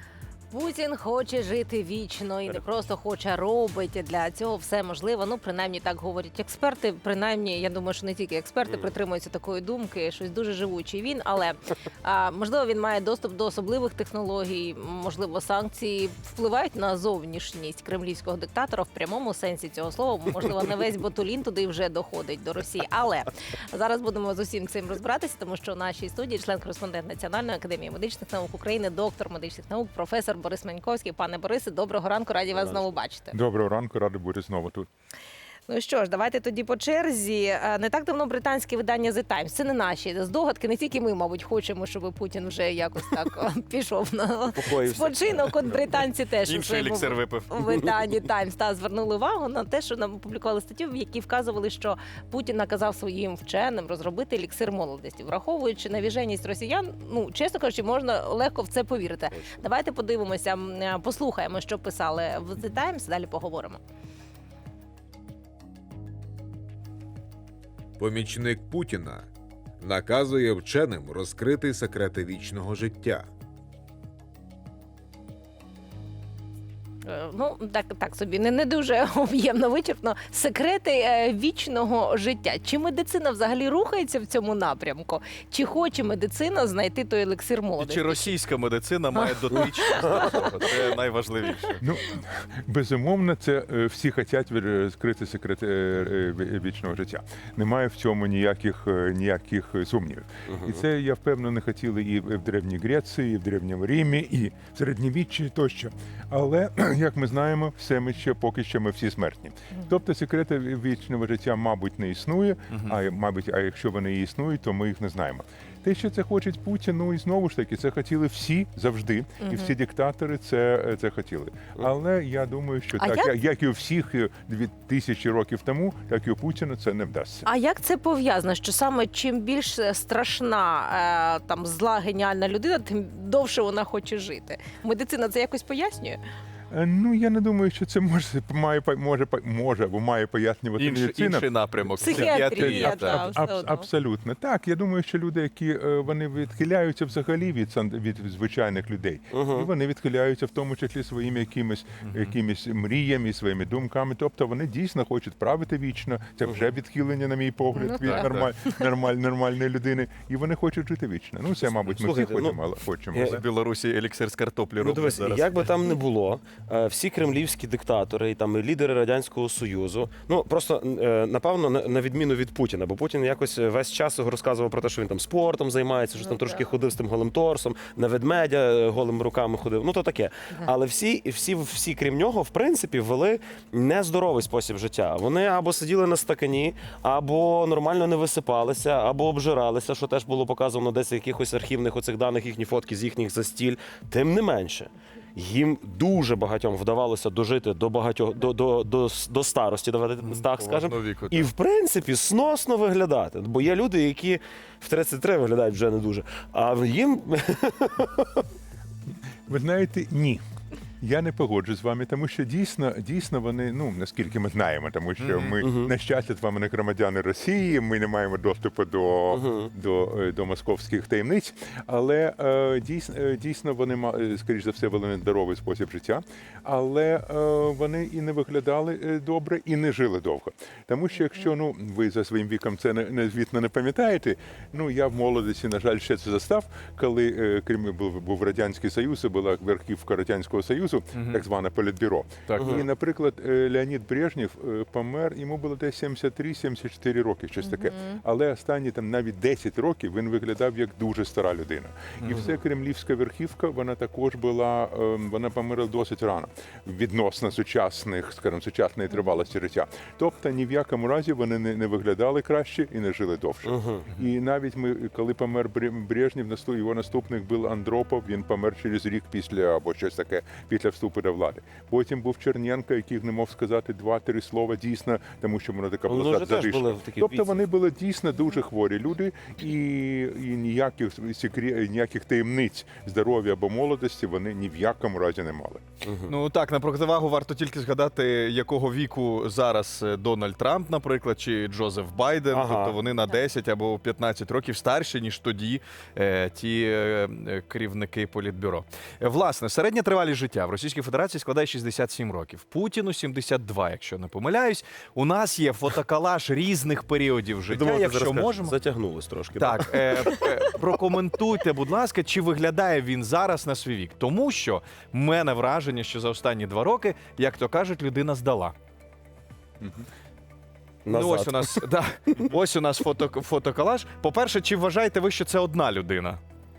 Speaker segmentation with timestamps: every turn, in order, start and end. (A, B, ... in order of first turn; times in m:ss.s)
0:00.5-0:33.3 A
0:32.5-0:33.0 B
0:33.3-0:34.9 C
0:35.7-1:03.8 A
0:44.5-0:45.9 B
0:46.4-0:47.9 D
0:59.3-0:59.6 B
1:08.0-1:09.3 E
1:09.8-1:13.3 E
1:17.0-1:28.3 A
1:27.8-1:31.8 D
1:29.2-1:30.7 A
1:31.8-2:07.4 C
1:40.4-1:40.8 B
1:52.7-1:53.0 D
1:59.4-1:59.7 A
2:03.0-2:03.3 A
2:07.4-2:16.2 A
2:16.7-2:43.4 C
2:20.8-2:23.3 D
2:22.0-2:23.8 A
2:29.3-2:29.7 B
2:32.0-2:32.3 D
2:37.8-2:38.2 A
2:38.0-2:38.5 D
2:41.7-2:42.6 B
2:43.1-2:43.4 B
2:43.2-2:45.6 D
2:44.8-3:28.5 B
2:56.3-2:56.6 A
3:20.2-3:21.5 D
3:29.5-3:30.4 C
3:31.0-4:45.8 C
3:35.2-3:35.6 D
3:35.6-3:35.9 B
3:39.3-3:39.7 B
4:01.1-4:01.4 D
4:02.5-4:02.8 D
4:02.6-4:02.8 B
4:07.6-4:08.2 A
4:12.2-4:12.5 D
4:23.6-4:24.0 B
4:36.1-4:37.6 B
4:46.0-4:46.3 B
4:46.3-5:08.8 D
4:52.5-4:53.0 B
5:07.7-5:10.5 B
5:09.6-5:18.7 D
5:19.8-5:20.0 C
5:21.0-5:21.8 B
5:21.1-5:26.4 D